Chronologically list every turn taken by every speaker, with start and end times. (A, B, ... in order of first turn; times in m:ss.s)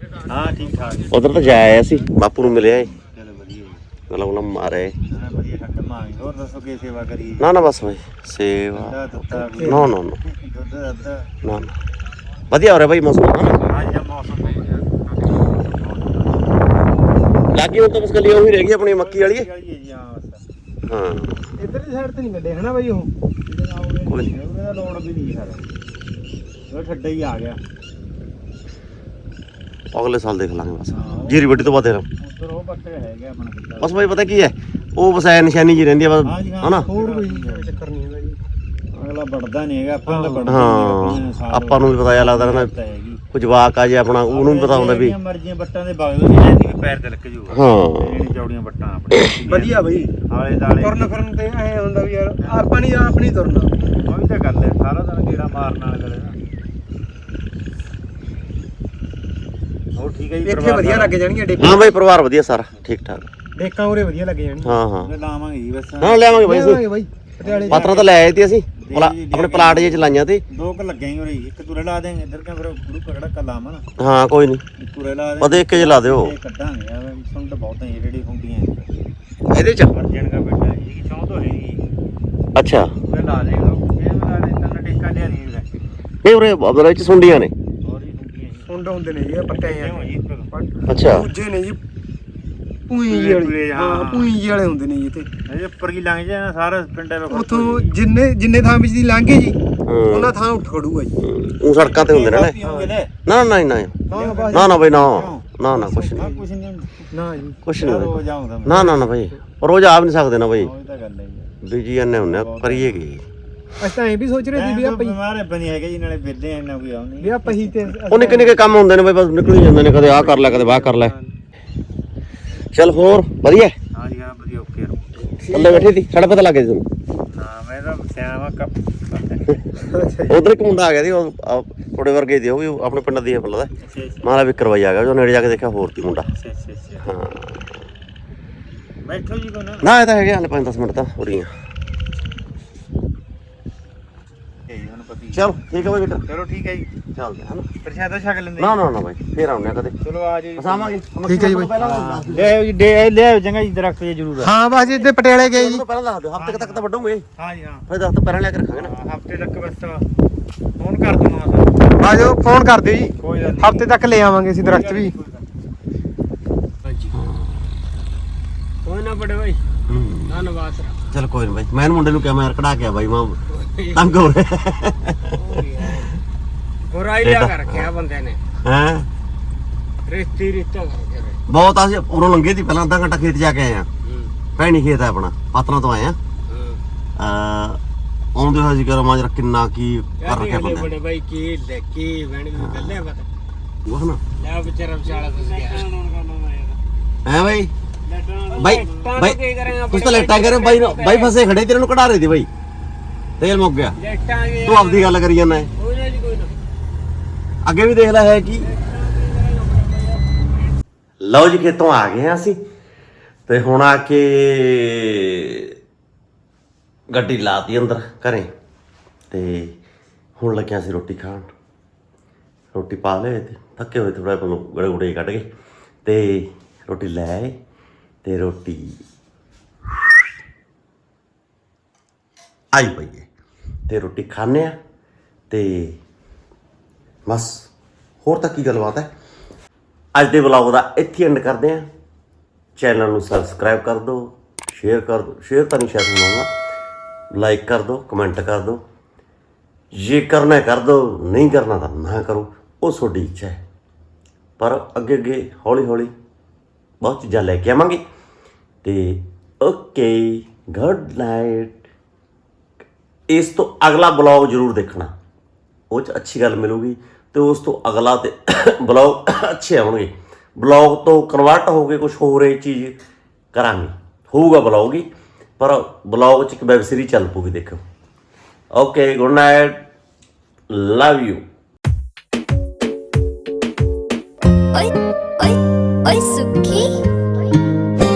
0:00.2-0:01.2 A
0:01.1-0:02.9 B
0:02.4-0:03.8 A
0:04.1-0:05.0 B
0:05.1-0:07.5 A
0:07.4-0:10.2 B
0:08.7-0:11.3 A
0:09.6-0:09.9 C
0:11.4-0:11.7 B
0:12.5-0:13.6 B
0:13.6-0:17.0 A
0:17.5-0:19.5 B
0:18.8-0:20.4 A
0:20.9-0:21.4 B
0:21.6-0:23.1 C
0:23.5-0:25.6 A
0:24.1-0:24.3 B
0:26.7-0:27.6 A
0:29.9-0:32.1 B
0:30.9-0:34.0 A
0:33.8-0:36.9 B
0:36.2-0:37.8 A
0:36.7-0:38.4 C
0:38.9-0:43.2 A
0:40.1-0:40.6 C
0:40.5-0:42.7 B
0:43.3-0:45.2 B
0:44.3-0:51.1 A
0:47.5-0:48.3 B
0:49.5-0:50.1 C
0:50.8-0:53.8 C
0:52.4-0:52.7 A
0:53.8-0:56.4 A
1:00.0-1:01.2 A
1:00.4-1:01.9 C
1:01.6-1:03.3 B
1:03.6-1:04.8 C
1:04.6-1:05.2 B
1:04.9-1:06.6 A
1:06.0-1:06.8 B
1:06.4-1:08.1 C
1:07.4-1:08.2 A
1:07.7-1:10.4 B
1:08.8-1:13.8 A
1:14.0-1:14.6 B
1:14.8-1:19.1 A
1:15.4-1:16.3 B
1:19.5-1:19.9 B
1:19.9-1:21.8 A
1:22.6-1:22.9 B
1:23.1-1:25.8 A
1:26.2-1:27.5 B
1:27.8-1:28.8 A
1:28.6-1:31.8 C
1:29.3-1:30.5 A
1:30.9-1:31.3 B
1:32.9-1:35.3 C
1:33.1-1:34.4 A
1:35.5-1:37.9 A
1:37.3-1:41.2 C
1:39.9-1:40.4 B
1:41.2-1:42.6 B
1:41.7-1:43.1 A
1:43.2-1:46.3 B
1:44.1-1:47.1 A
1:44.1-1:44.9 C
1:45.7-1:46.4 C
1:47.1-1:47.6 C
1:47.6-1:50.7 B
1:47.8-1:49.0 A
1:48.8-1:49.1 C
1:50.6-1:51.5 A
1:51.6-1:53.2 B
1:52.2-1:53.0 A
1:53.8-1:55.2 C
1:54.5-1:57.9 A
1:57.2-1:58.7 C
1:58.1-2:01.1 B
2:00.0-2:01.3 C
2:02.7-2:03.8 B
2:04.0-2:05.0 A
2:05.4-2:05.9 C
2:05.5-2:06.9 B
2:07.3-2:09.6 A
2:09.8-2:10.4 C
2:10.3-2:13.7 B
2:13.8-2:14.3 A
2:14.2-2:16.3 B
2:16.4-2:17.1 A
2:17.0-2:17.8 B
2:19.0-2:19.9 A
2:19.8-2:21.5 B
2:24.7-2:25.5 A
2:25.3-2:26.2 B
2:26.3-2:26.9 A
2:27.2-2:27.7 B
2:27.8-2:28.8 A
2:28.6-2:30.0 B
2:30.0-2:31.0 A
2:30.6-2:32.6 B
2:31.2-2:31.8 C
2:31.8-2:34.5 A
2:34.4-2:35.8 C
2:35.4-2:37.3 B
2:36.4-2:36.9 A
2:37.4-2:37.9 A
2:37.9-2:38.9 B
2:38.8-2:40.0 A
2:40.8-2:41.8 A
2:42.0-2:45.2 C
2:43.2-2:44.0 A
2:44.6-2:45.5 A
2:46.9-2:47.2 D
2:47.1-2:47.6 B
2:48.8-2:49.6 D
2:49.9-2:50.4 B
2:50.3-2:51.0 D
2:51.1-2:53.4 B
2:53.5-2:54.0 D
2:53.9-2:55.3 B
2:55.3-2:56.2 D
2:56.9-2:58.4 D
2:57.2-2:57.9 B
2:58.6-2:59.1 B
3:00.1-3:01.4 D
3:01.5-3:03.9 B
3:04.0-3:04.3 D
3:04.6-3:06.2 B
3:06.5-3:06.8 D
3:07.2-3:07.8 B
3:08.4-3:10.9 B
3:10.2-3:13.3 D
3:12.6-3:13.0 B
3:13.8-3:14.2 B
3:14.4-3:16.1 D
3:15.1-3:16.8 A
3:17.2-3:17.7 B
3:18.1-3:21.4 D
3:18.6-3:19.0 A
3:18.6-3:22.5 B
3:23.4-3:24.0 B
3:24.0-3:25.2 D
3:24.6-3:25.7 B
3:25.8-3:26.5 D
3:27.6-3:28.7 B
3:28.6-3:30.4 D
3:31.2-3:32.6 B
3:33.5-3:35.8 B
3:37.1-3:38.5 B
3:39.3-3:39.8 B
3:40.4-3:41.5 B
3:42.7-3:45.5 B
3:46.0-3:47.6 B
3:48.2-3:49.0 B
3:52.7-3:53.3 B
3:53.9-3:54.8 B
3:55.5-3:56.0 B
3:57.3-3:57.7 B
3:58.2-3:59.1 B
4:00.2-4:01.9 B
4:02.8-4:06.5 B
4:07.3-4:08.8 B
4:09.9-4:13.6 B
4:14.6-4:16.1 B
4:17.0-4:18.0 B
4:18.8-4:21.8 B
4:23.3-4:25.1 B
4:25.9-4:33.0 B
4:33.5-4:35.1 B
4:35.6-4:37.8 B
4:38.7-4:39.8 B
4:40.7-4:41.4 B
4:44.7-4:47.0 E